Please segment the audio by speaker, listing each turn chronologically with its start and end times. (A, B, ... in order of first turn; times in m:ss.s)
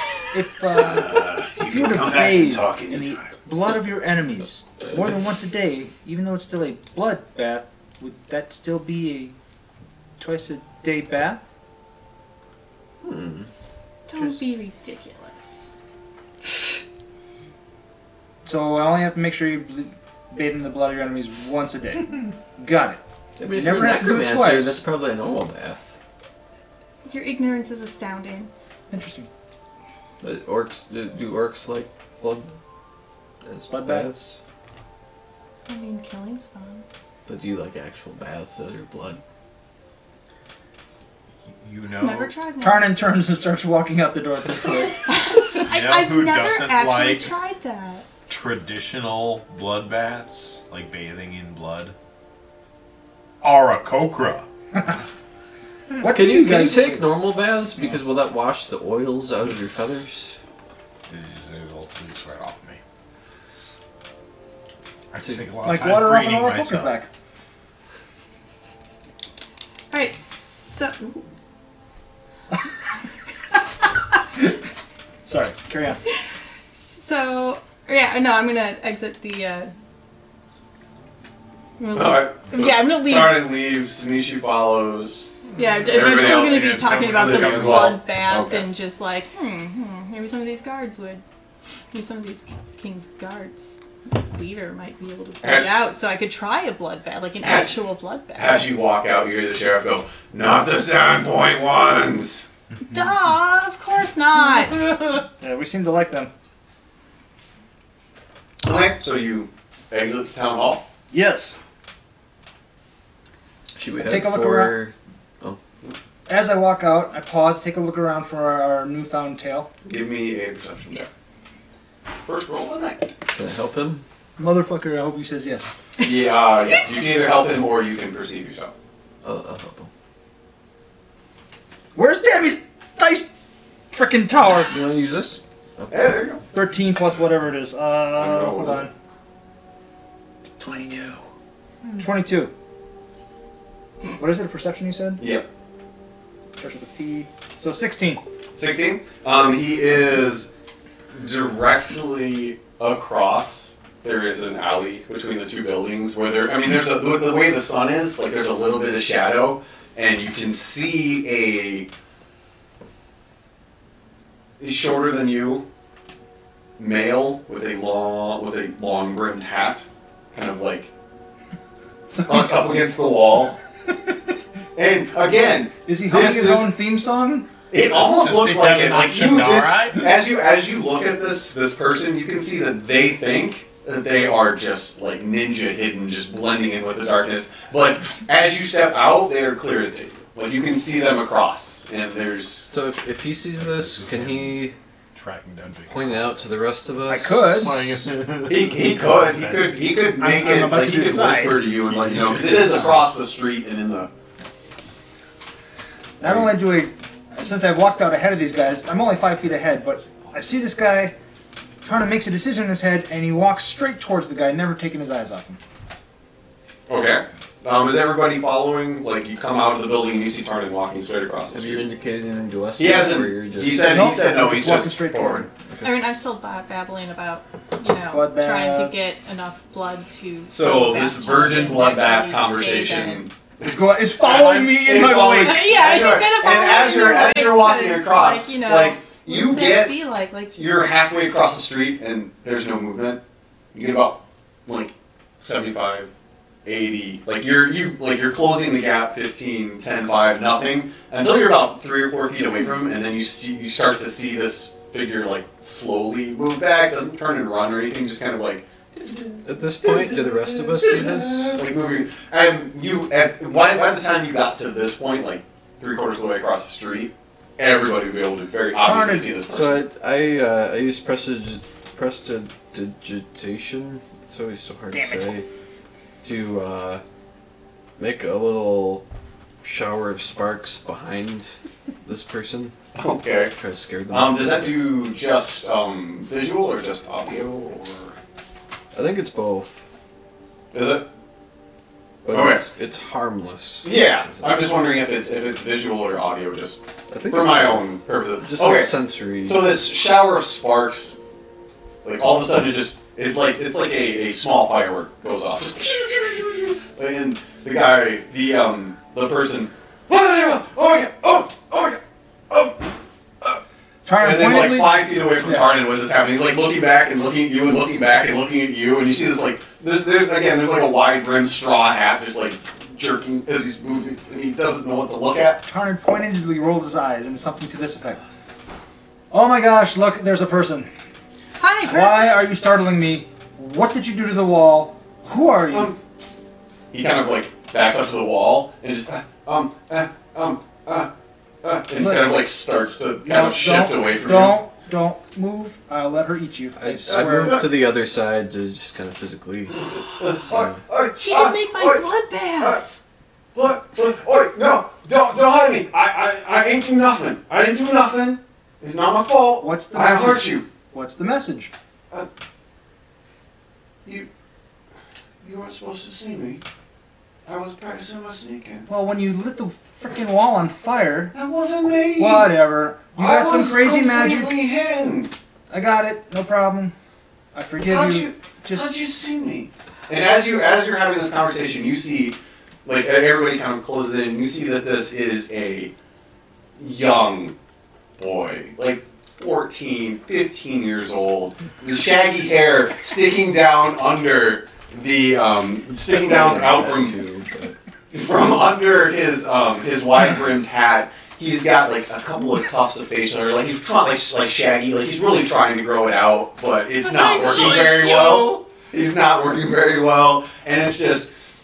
0:00.3-0:09.4 A
0:00.7-0:03.3 B
0:10.2-0:11.4 A
0:13.0-0:13.5 C
0:14.1-0:15.7 D
0:14.1-0:14.4 A
0:18.4-0:23.0 A
0:23.4-0:26.0 C
0:23.5-0:24.8 A
0:27.0-0:28.5 D
0:28.9-0:29.3 A
0:30.2-0:32.5 C
0:33.4-0:34.4 C
0:33.7-0:34.1 A
0:35.7-0:36.8 D
0:37.2-0:39.2 C
0:41.4-0:42.3 E
0:42.0-0:43.0 D
0:42.6-0:45.1 A
0:45.0-0:48.1 D
0:45.7-0:47.3 E
0:48.3-0:51.9 E
0:53.4-0:54.5 E
0:56.0-0:57.1 A
0:56.0-1:00.4 C
1:01.1-1:02.8 E
1:05.1-1:07.0 E
1:05.2-1:05.5 C
1:05.6-1:07.1 A
1:09.9-1:11.2 D
1:15.2-1:16.0 A
1:16.7-1:19.7 D
1:21.8-1:23.5 D
1:21.9-1:28.7 B
1:25.5-1:31.2 D
1:25.6-1:28.0 E
1:31.9-1:38.7 D
1:35.4-1:35.8 B
1:37.4-1:37.8 B
1:38.3-1:42.4 B
1:42.8-1:45.0 D
1:45.4-1:46.3 A
1:48.6-1:50.8 B
1:51.1-1:51.6 A
1:53.8-1:55.6 C
1:54.0-1:54.8 A
1:56.2-1:59.7 A
1:59.8-2:01.1 B
2:02.2-2:03.1 B
2:03.3-2:04.0 C
2:04.4-2:05.7 A
2:06.0-2:08.7 B
2:09.2-2:09.9 C
2:11.9-2:13.3 A
2:13.9-2:14.8 A
2:14.5-2:16.1 C
2:15.9-2:16.4 B
2:16.5-2:18.9 A
2:18.1-2:18.9 B
2:20.7-2:21.1 B
2:22.0-2:22.5 A
2:24.2-2:25.2 A
2:25.2-2:25.5 B
2:26.6-2:28.2 A
2:28.5-2:30.5 B
2:31.1-2:41.9 B
2:44.6-2:45.6 B
2:46.8-2:50.9 B
2:52.1-2:52.4 A
2:52.2-2:53.6 B
2:54.7-2:56.8 B
2:55.8-2:57.5 A
2:57.7-3:12.7 B
2:57.7-3:00.2 E
3:12.7-3:14.8 C
3:13.5-3:16.4 E
3:15.9-3:17.8 C
3:17.1-3:17.8 A
3:17.5-3:19.9 E
3:18.4-3:24.1 B
3:20.2-3:21.6 A
3:21.7-3:23.1 E
3:26.2-3:31.1 A
3:30.0-3:30.3 E
3:31.8-3:35.6 A
3:36.9-3:41.9 B
3:41.5-3:44.2 C
3:42.8-3:45.5 B
3:43.8-3:45.5 A
3:45.8-3:53.3 D
3:48.1-3:49.1 A
3:50.5-4:03.2 B
3:53.6-3:55.7 A
3:55.1-4:00.9 D
4:03.7-4:06.1 B
4:06.6-4:29.8 B
4:19.4-4:21.6 C
4:28.8-4:29.4 A
4:29.5-4:35.4 C
4:34.9-4:35.3 A
4:36.2-4:37.0 C
4:38.0-4:39.0 C
4:39.6-4:41.5 C
4:42.0-4:42.7 C
4:42.9-4:43.5 B
4:43.5-4:44.8 C
4:44.1-4:48.2 B
4:48.9-4:49.8 C
4:50.7-4:51.1 B
4:52.2-4:54.6 C
4:52.3-4:52.6 B
4:53.8-5:01.2 B
4:57.1-4:59.7 C
5:02.0-5:12.8 B
5:14.0-5:15.7 A
5:14.2-5:25.6 B
5:25.6-5:28.2 A
5:29.3-5:30.9 A
5:31.6-5:32.4 D
5:31.8-5:35.9 A
5:35.7-5:36.0 B
5:36.9-5:41.1 B
5:41.6-5:44.6 B
5:42.0-5:42.4 A
5:43.2-5:47.6 A
5:46.8-5:49.9 C
5:47.0-5:47.8 B
5:49.7-5:52.8 B
5:50.5-5:50.8 C
5:51.2-5:52.9 D
5:53.5-6:00.6 B
5:59.6-6:01.7 A
6:05.4-6:06.6 B
6:07.4-6:08.9 B
6:08.9-6:11.3 A
6:11.3-6:15.3 B
6:12.2-6:14.6 A
6:15.7-6:16.9 A
6:17.5-6:18.9 A
6:17.8-6:25.9 B
6:26.8-6:27.6 B
6:28.2-6:37.2 B
6:36.1-6:37.8 C
6:38.1-6:51.3 B
6:47.0-6:48.6 D